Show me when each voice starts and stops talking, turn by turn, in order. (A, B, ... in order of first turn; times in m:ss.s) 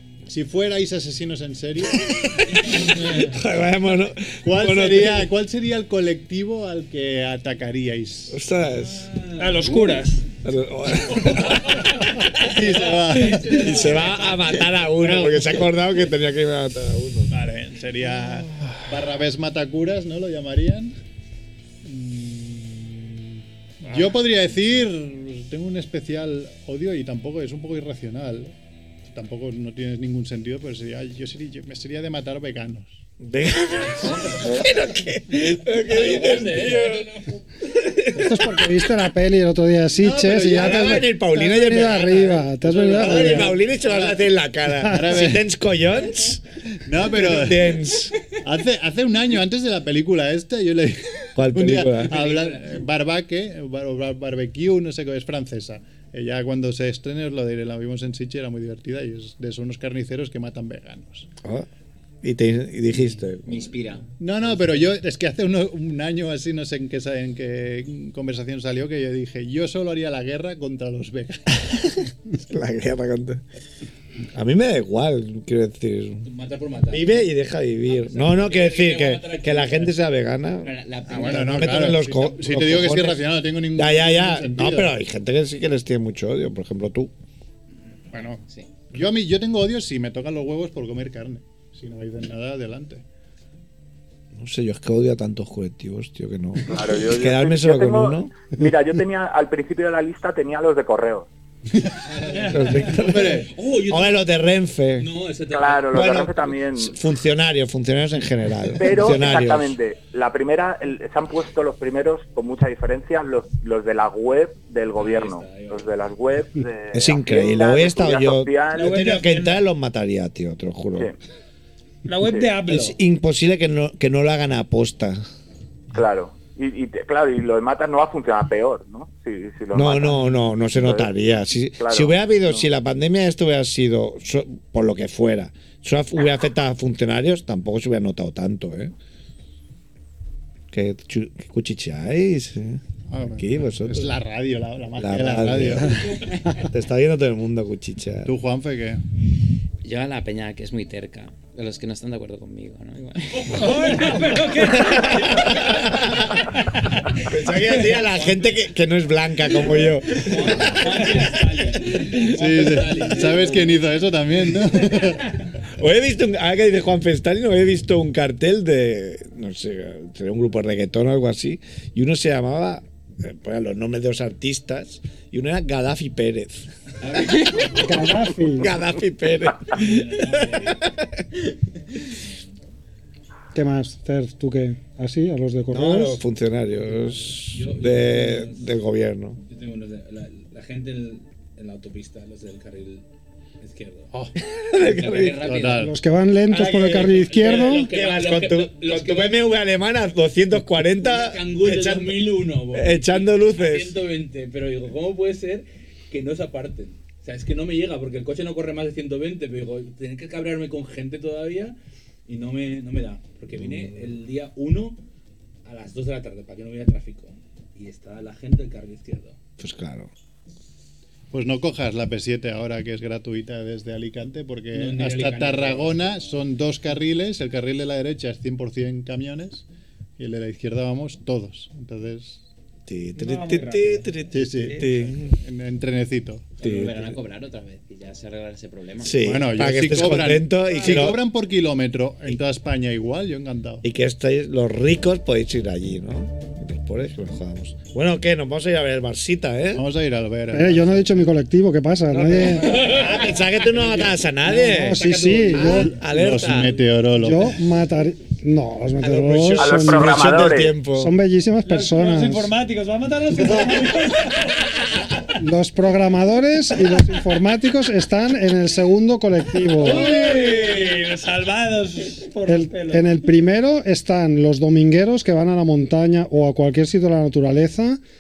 0:00.3-0:02.1 A
0:02.3-0:05.3 B
0:04.4-0:08.4 A
0:08.3-0:09.1 B
0:08.7-0:09.7 C
0:09.4-0:10.2 D
0:10.4-0:12.6 B
0:12.4-0:14.0 A
0:13.1-0:14.4 C
0:13.4-0:17.3 B
0:15.0-0:15.6 A
0:17.3-0:21.0 A
0:21.8-0:28.5 A
0:29.1-0:33.0 A
0:33.2-0:37.1 B
0:35.4-0:37.4 C
0:37.7-0:38.9 B
0:38.1-0:43.6 E
0:40.0-0:41.0 A
0:40.5-0:46.4 B
0:42.7-0:45.5 A
0:46.8-0:47.8 A
0:47.2-0:48.1 B
0:48.4-1:01.3 A
0:51.4-0:52.2 B
0:52.1-0:52.8 C
1:02.2-1:03.8 B
1:03.4-1:04.8 F
1:04.2-1:11.6 A
1:12.3-1:13.4 B
1:14.3-1:16.3 B
1:16.3-1:17.3 C
1:16.9-1:23.2 B
1:17.9-1:20.0 C
1:20.6-1:22.0 F
1:21.1-1:24.9 A
1:23.8-1:27.1 B
1:28.1-1:33.0 A
1:28.2-1:28.7 F
1:34.4-1:38.3 B
1:36.6-1:41.3 G
1:41.7-1:42.0 A
1:42.1-1:44.3 C
1:42.3-1:42.9 D
1:42.5-1:45.1 B
1:42.9-1:43.5 A
1:45.0-1:46.2 C
1:45.5-1:47.0 G
1:45.9-1:49.8 B
1:48.8-1:59.0 G
1:55.0-1:55.9 C
1:56.9-2:01.1 B
1:58.8-1:59.6 D
2:02.1-2:03.0 D
2:02.2-2:02.5 G
2:02.7-2:05.2 B
2:05.9-2:11.1 G
2:09.7-2:18.9 B
2:11.8-2:12.7 G
2:20.7-2:24.1 B
2:23.1-2:26.4 A
2:25.0-2:28.3 B
2:28.2-2:29.0 A
2:29.8-2:33.8 F
2:33.3-2:36.4 C
2:33.5-2:35.6 D
2:35.0-2:36.4 B
2:36.6-2:37.1 D
2:37.1-2:41.9 B
2:37.7-2:38.6 C
2:39.6-2:43.9 C
2:42.2-2:45.4 A
2:45.8-2:56.7 B
2:57.0-2:57.9 F
2:57.8-2:58.7 E
2:58.6-3:01.1 B
2:59.7-3:00.8 C
3:02.1-3:02.6 C
3:03.5-3:06.2 E
3:05.7-3:09.4 B
3:06.9-3:08.7 C
3:09.4-3:13.0 C
3:13.6-3:14.1 C
3:14.4-3:15.4 B
3:15.0-3:15.7 F
3:15.0-3:15.8 C
3:15.4-3:16.0 A
3:15.8-3:17.9 E
3:16.5-3:23.9 B
3:16.5-3:19.5 C
3:20.8-3:31.8 C
3:32.3-3:35.0 C
3:33.5-3:34.1 B
3:35.7-3:39.4 C
3:39.6-3:40.1 B
3:41.3-3:49.6 A
3:44.7-3:46.3 C
3:50.2-3:52.4 A
3:52.9-3:55.4 B
3:53.2-3:54.1 D
3:54.3-3:57.2 A
3:56.6-3:59.2 F
3:59.0-4:01.2 B
3:59.2-4:03.8 A
4:03.8-4:09.8 B
4:09.7-4:11.3 A
4:10.5-4:12.8 E
4:12.1-4:14.0 C
4:12.6-4:16.8 B
4:14.7-4:16.0 E
4:14.8-4:15.8 C
4:15.5-4:17.6 A
4:17.2-4:20.1 E
4:19.0-4:21.2 B
4:19.6-4:20.8 G
4:20.9-4:22.5 E
4:21.6-4:25.1 D
4:23.4-4:23.9 E
4:25.4-4:30.1 E
4:29.8-4:33.1 D
4:30.0-4:30.8 B
4:32.5-4:38.0 E